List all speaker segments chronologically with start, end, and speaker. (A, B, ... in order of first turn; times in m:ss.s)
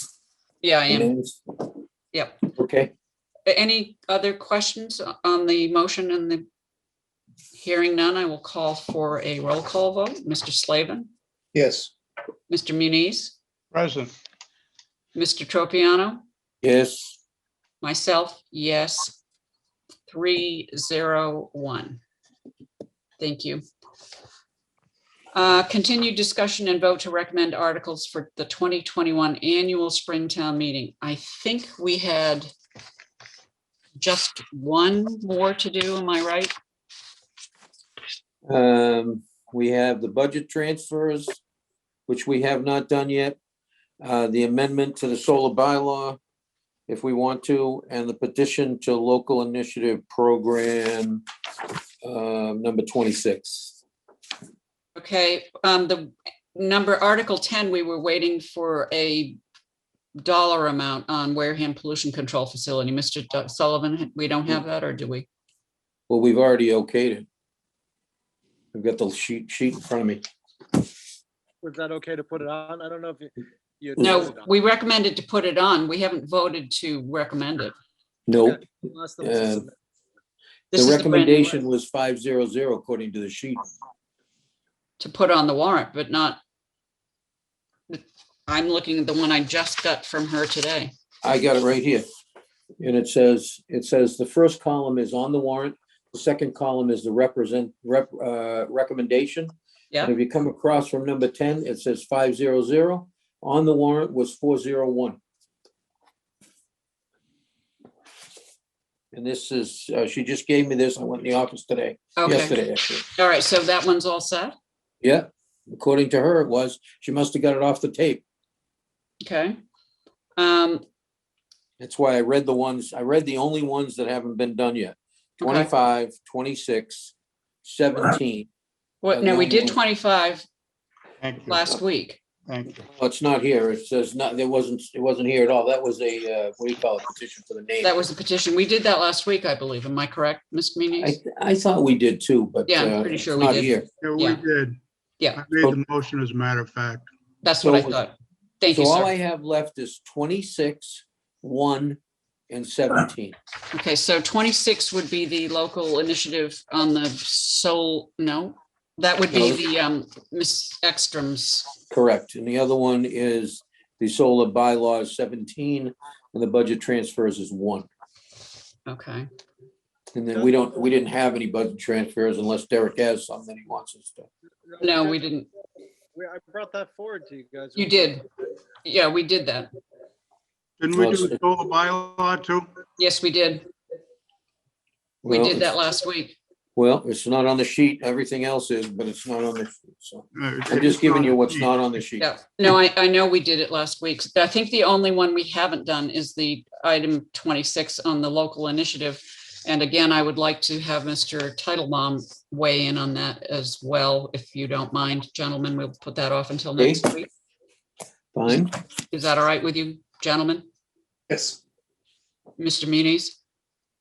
0:00.6-0:01.1 A
0:00.9-0:01.4 B
0:02.1-0:02.4 A
0:02.6-0:02.9 B
0:03.4-0:06.4 A
0:07.5-0:11.1 A
0:12.5-0:13.3 A
0:13.7-0:14.1 C
0:15.1-0:16.2 A
0:16.6-0:17.2 B
0:17.8-0:19.2 A
0:20.1-0:22.0 A
0:23.2-0:23.6 A
0:25.3-0:32.5 A
0:34.0-0:36.5 A
0:38.5-0:41.4 B
0:42.1-0:43.4 B
0:44.0-0:46.2 B
0:46.9-0:51.2 B
0:52.0-0:53.8 B
0:55.0-0:59.4 A
1:00.2-1:05.3 A
1:06.1-1:07.2 B
1:08.7-1:10.2 B
1:11.6-1:14.4 D
1:14.0-1:14.3 B
1:14.0-1:17.7 A
1:18.3-1:18.6 B
1:18.4-1:19.7 D
1:19.2-1:19.6 B
1:20.7-1:21.6 A
1:20.7-1:23.6 B
1:25.0-1:26.4 A
1:27.9-1:30.9 A
1:31.2-1:32.0 B
1:32.8-1:45.2 B
1:49.1-1:53.0 B
1:52.2-1:52.6 A
1:53.1-1:54.5 A
1:55.0-1:58.2 B
1:59.2-1:59.6 A
2:00.4-2:00.8 A
2:01.8-2:08.5 B
2:05.4-2:05.7 A
2:09.0-2:10.4 A
2:09.1-2:09.8 B
2:11.2-2:11.7 C
2:11.4-2:12.2 A
2:12.4-2:12.8 C
2:12.9-2:18.0 B
2:17.8-2:21.2 A
2:21.0-2:23.8 B
2:22.7-2:24.4 A
2:24.0-2:24.8 C
2:25.4-2:27.1 C
2:27.4-2:29.1 A
2:27.6-2:27.9 B
2:28.7-2:33.3 B
2:33.7-2:41.7 A
2:39.3-2:39.6 B
2:41.9-2:47.9 B
2:48.9-2:49.3 A
2:50.1-2:54.3 B
2:54.8-2:55.2 D
2:54.8-2:55.5 A
2:56.2-2:58.1 D
2:57.8-2:58.2 A
2:58.8-2:59.7 A
3:00.8-3:02.7 C
3:00.9-3:01.4 B
3:03.0-3:03.6 A
3:05.2-3:05.7 B
3:05.2-3:06.4 A
3:06.8-3:12.3 B
3:10.4-3:11.8 C
3:12.2-3:27.3 A
3:26.8-3:27.0 B
3:28.3-3:28.7 B
3:29.1-3:30.6 A
3:32.6-3:33.4 A